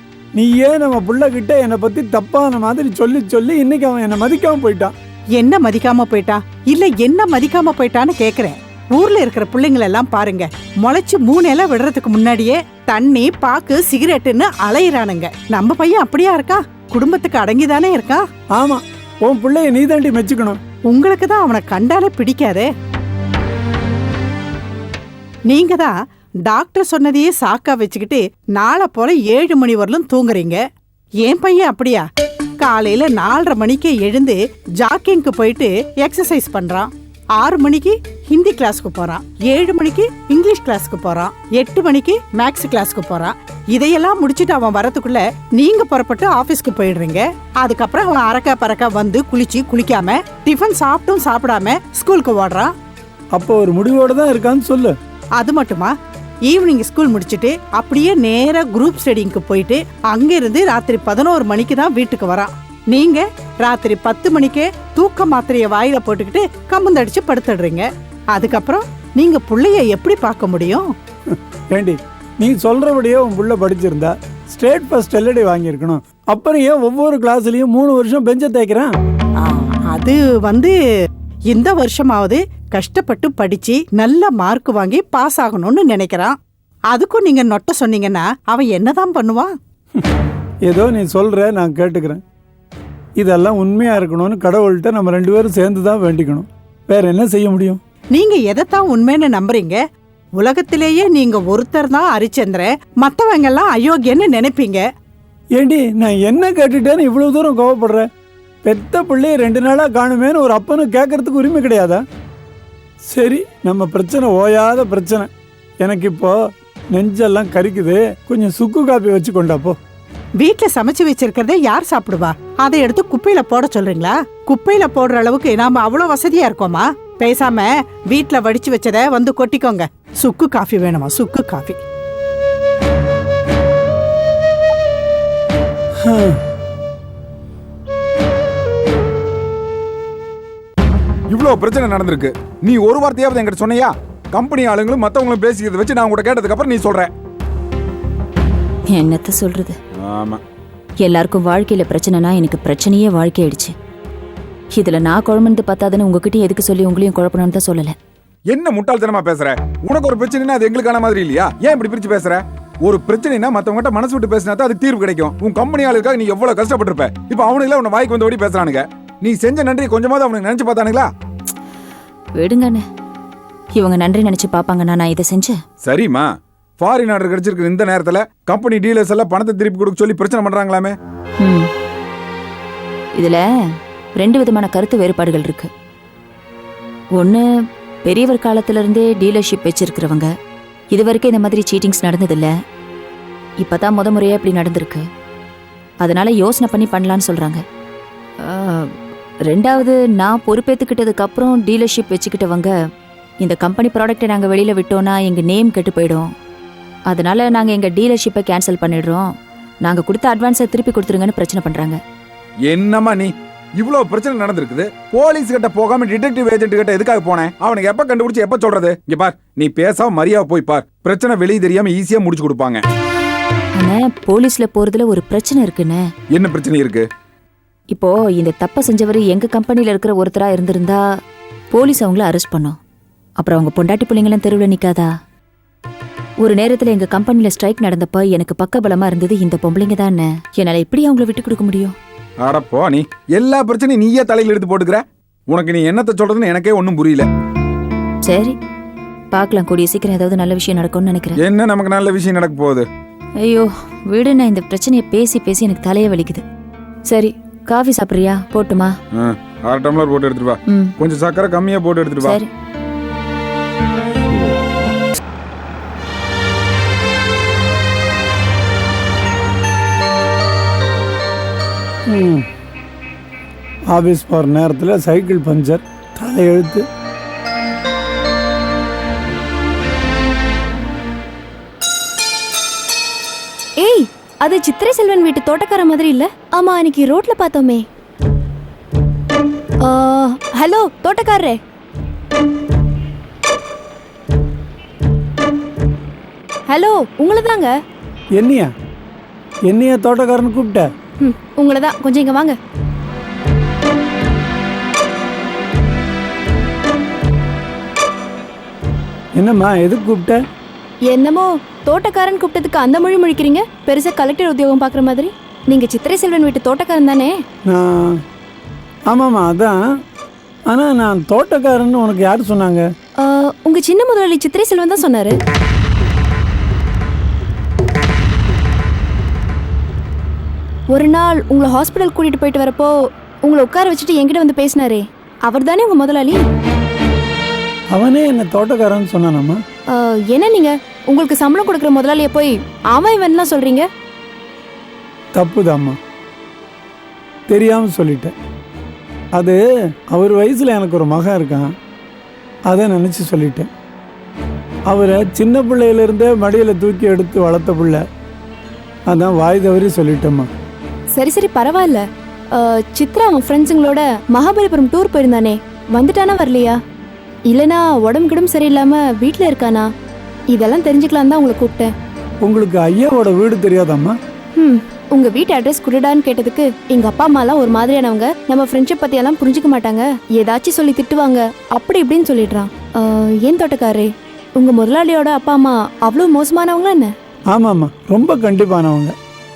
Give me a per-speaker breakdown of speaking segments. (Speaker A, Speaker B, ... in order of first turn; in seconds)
Speaker A: 0.3-4.9, 18.6-20.6, 53.3-54.9, 71.7-78.9, 90.7-92.2, 93.2-97.8, 105.5-108.1, 108.6-112.0, 113.1-115.3, 115.8-116.4, 116.9-119.8, 136.0-136.4, 272.1-272.4, 273.9-276.8, 298.4-298.7, 299.7-300.9, 309.4-310.4, 317.7-318.2, 319.1-319.8, 320.7-322.9, 337.9-339.6, 345.3-346.0, 347.5-348.3, 349.3-351.7, 352.7-353.7, 354.9-358.0, 359.1-360.5, 372.4-374.1, 387.5-389.1
Speaker B: 5.4-18.2, 20.9-22.7, 25.5-25.9, 26.4-30.6, 31.2-32.0, 32.6-52.7, 55.4-55.9, 56.5-70.8, 79.4-80.8, 81.5-86.3, 86.9-89.5, 98.1-99.8, 100.4-104.8, 120.4-131.8
Speaker C: 141.3-147.1, 150.0-150.4, 158.5-171.1, 175.8-181.0, 212.7-222.8, 226.3-227.1, 242.4-247.3, 251.4-252.8, 259.1-262.4
Speaker D: 148.9-149.8, 151.0-153.7, 154.7-157.9, 172.4-172.8, 173.7-175.6, 181.4-181.7, 183.1-183.4, 184.2-185.7, 187.2-187.4, 188.0-190.3, 190.9-192.5, 193.6-195.0, 196.0-197.6, 198.4-198.9, 199.5-202.7, 203.4-206.3, 207.1-209.3, 209.8-212.0, 223.8-226.0, 227.9-231.0, 231.7-232.8, 233.4-235.1, 236.4-241.9, 248.2-248.6, 249.3-251.4, 253.4-256.4, 257.1-258.9, 260.7-260.9, 262.2-262.5
Speaker E: 283.8-287.8, 289.8-291.6, 296.7-297.7, 301.2-302.6, 311.1-317.3, 323.2-325.4, 330.9-332.9, 333.4-336.4, 339.9-343.9, 361.1-362.0, 362.6-366.8, 367.5-369.9, 370.5-371.9, 374.6-387.1